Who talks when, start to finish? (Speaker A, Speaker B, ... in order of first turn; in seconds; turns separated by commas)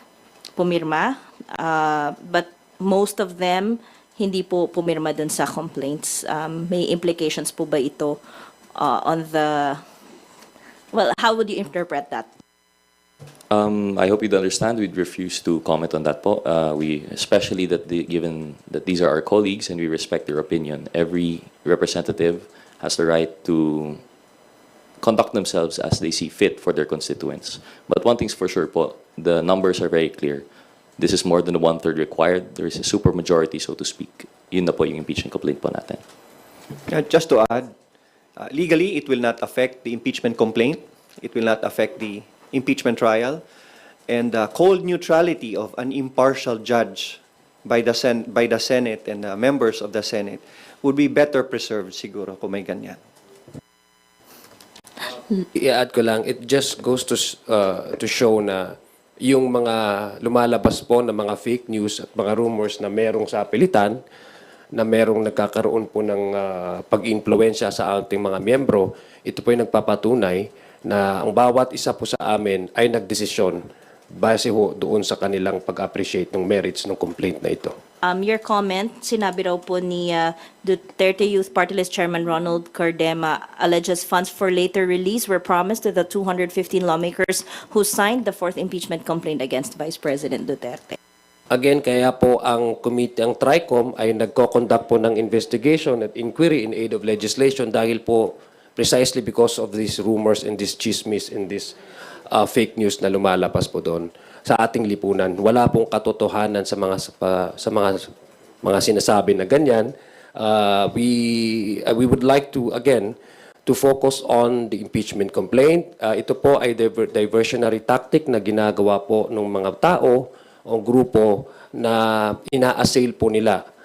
Speaker A: 0.6-8.2, Speaker A: 8.8-9.8, Speaker A: 10.9-12.3, Speaker B: 13.5-24.0, Speaker B: 25.0-30.5, Speaker B: 31.0-36.0, Speaker C: 36.9-37.7, Speaker C: 38.4-43.4, Speaker C: 44.1-53.0, Speaker D: 55.4-64.0, Speaker D: 64.7-73.6, Speaker D: 74.2-77.8, Speaker A: 78.0-91.0, Speaker D: 91.5-101.8, Speaker D: 102.3-108.1, Speaker D: 108.6-113.1, Speaker D: 113.7-123.6